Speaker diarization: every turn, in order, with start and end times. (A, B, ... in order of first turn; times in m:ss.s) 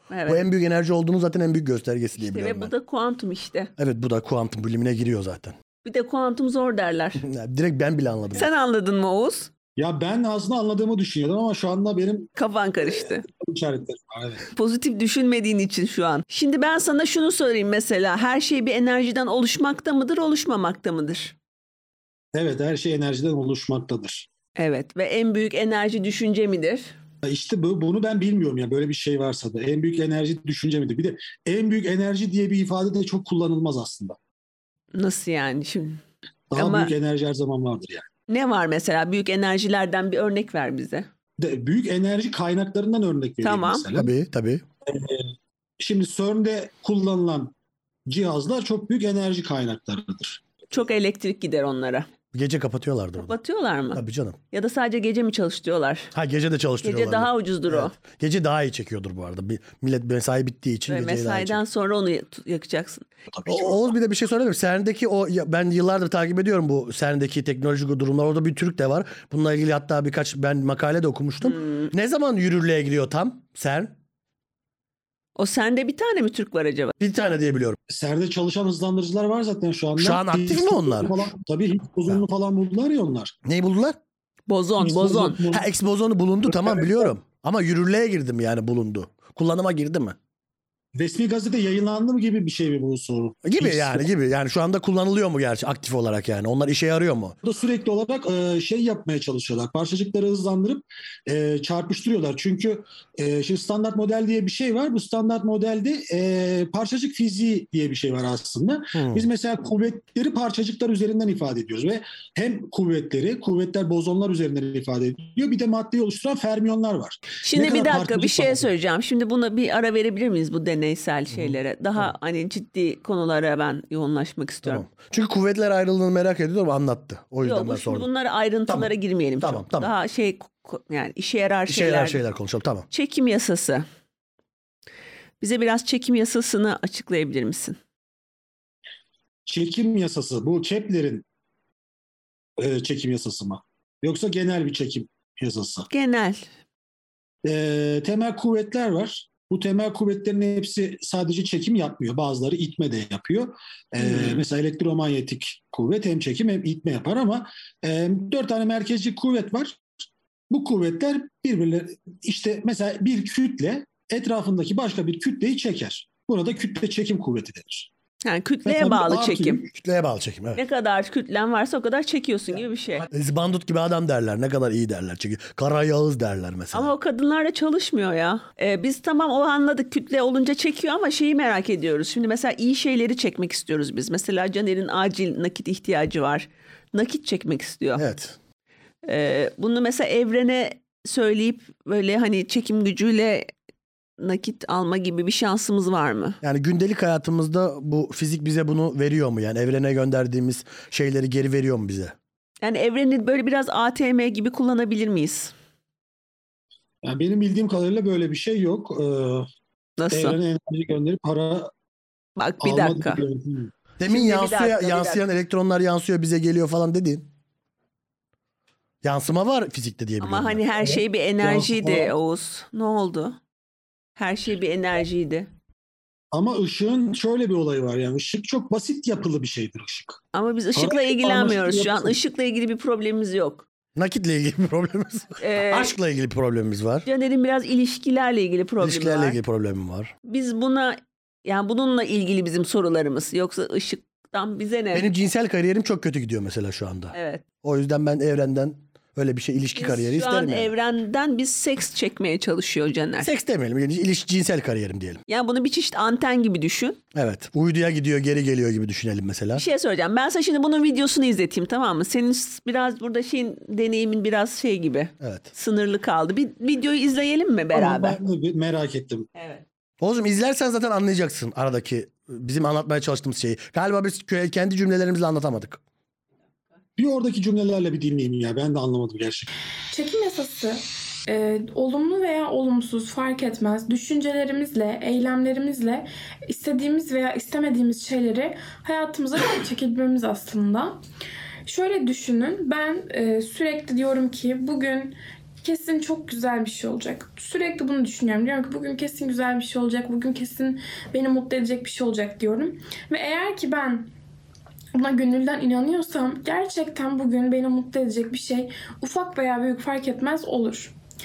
0:00.1-0:00.4 A
0:00.2-0:02.7 B
0:02.2-0:03.7 A
0:03.8-0:05.6 B
0:05.8-0:07.2 A
0:07.2-0:08.5 B
0:08.3-0:09.5 A
0:09.8-0:12.3 C
0:12.4-0:13.2 A
0:12.8-0:14.5 C
0:14.5-0:21.4 A
0:22.3-0:24.3 C
0:24.6-0:26.9 A
0:27.2-0:34.2 C
0:34.9-0:36.0 A
0:36.5-0:38.1 C
0:36.5-0:36.9 A
0:38.3-0:41.1 A
0:41.4-0:44.1 C
0:43.4-0:43.9 A
0:43.9-0:44.6 B
0:44.9-0:45.3 C
0:45.8-0:47.5 C
0:48.1-0:50.4 C
0:50.7-0:52.1 A
0:52.3-0:53.3 B
0:53.2-0:54.0 A
0:53.9-0:54.4 B
0:54.5-0:56.1 A
0:56.1-1:01.6 B
0:56.8-0:57.9 A
1:00.9-1:03.1 A
1:03.3-1:03.9 C
1:03.4-1:13.9 B
1:11.4-1:11.9 A
1:15.4-1:16.9 A
1:17.0-1:17.8 B
1:17.9-1:23.3 C
1:20.0-1:21.3 B
1:23.4-1:24.0 B
1:24.5-1:25.4 A
1:24.8-1:25.6 C
1:25.5-1:30.2 B
1:26.6-1:27.0 C
1:30.9-1:34.0 C
1:33.4-1:37.4 B
1:37.4-1:58.7 C
1:48.9-1:49.2 B
1:57.4-2:04.8 A
2:04.6-2:08.1 B
2:07.4-2:12.2 A
2:08.7-2:09.9 B
2:11.7-2:12.9 B
2:12.9-2:13.8 A
2:15.4-2:17.8 A
2:19.4-2:21.2 C
2:22.6-2:25.9 C
2:25.9-2:26.5 A
2:27.4-2:39.8 C
2:34.0-2:34.4 A
2:40.5-2:47.9 C
2:48.2-2:49.6 A
2:48.6-2:49.7 C
2:49.7-2:50.6 B
2:50.6-2:53.1 A
2:53.1-2:56.9 B
2:56.7-3:08.0 A
3:08.0-3:08.4 B
3:09.0-3:13.5 A
3:14.2-3:16.4 A
3:16.4-3:22.1 B
3:22.6-3:25.5 A
3:27.0-3:29.5 C
3:30.0-3:30.4 A
3:30.1-3:31.7 C
3:32.4-3:33.2 A
3:32.6-3:33.7 C
3:34.0-3:37.3 B
3:34.0-3:35.2 A
3:39.0-3:40.7 B
3:40.2-3:43.4 A
3:41.4-3:42.1 C
3:44.2-3:45.5 A
3:46.3-3:50.2 C
3:50.3-3:53.6 A
3:50.7-3:52.2 C
3:54.0-3:57.0 B
3:55.4-3:56.0 A
3:57.0-3:59.4 A
3:58.8-4:00.1 B
4:00.2-4:05.1 A
4:04.9-4:10.7 B
4:07.1-4:07.4 A
4:09.8-4:13.3 A
4:13.2-4:15.2 B
4:15.3-4:17.0 A
4:17.1-4:19.6 B
4:19.5-4:28.2 A
4:25.2-4:25.5 B
4:27.7-4:29.3 C
4:29.3-4:29.6 A
4:30.0-4:35.8 B
4:37.0-4:39.5 C
4:39.9-4:51.0 D
4:51.6-5:04.1 D
5:04.9-5:10.9 D